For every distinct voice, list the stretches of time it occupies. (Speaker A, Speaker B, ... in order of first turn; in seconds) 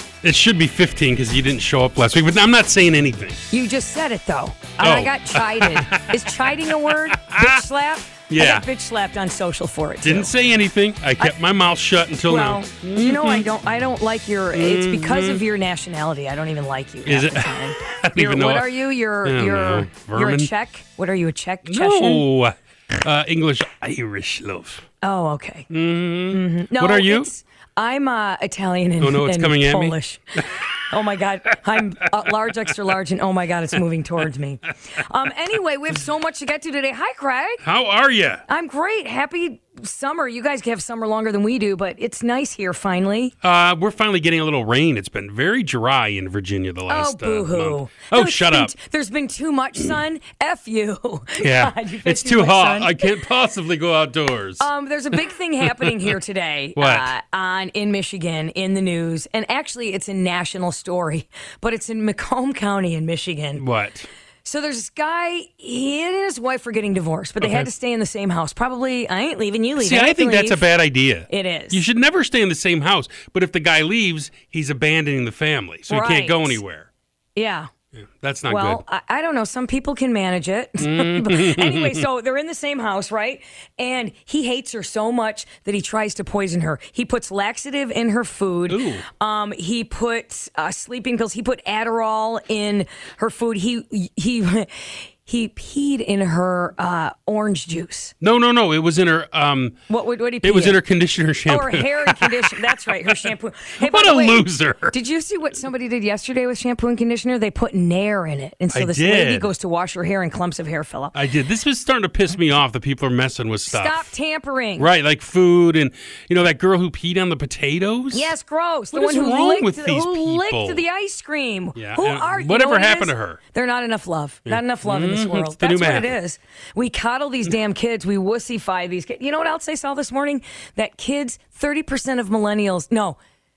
Speaker A: 0.2-3.4, 4.8-7.6, 8.3-8.7, 10.0-13.5, 14.5-15.4, 17.1-20.5, 21.7-24.9, 25.7-27.3, 29.0-30.0, 37.6-38.4, 43.4-48.7, 51.4-54.7, 55.6-56.1, 56.8-57.1, 63.6-64.1, 67.4-67.7, 69.8-76.9, 77.9-78.8, 80.8-82.0, 88.7-89.0, 98.2-99.8, 100.4-104.9, 108.7-109.5, 111.1-114.1, 114.8-118.3, 118.9-120.8, 121.8-123.4, 124.5-126.1
Speaker B: 3.5-10.3, 12.3-22.2, 25.0-25.7, 26.3-37.6, 38.5-43.3, 46.9-53.1, 54.6-63.6, 64.4-70.6, 71.3-71.8, 75.9-76.6, 77.4-77.7, 78.5-98.1, 99.9-100.8, 101.5-111.2, 113.7-114.9, 118.1-133.2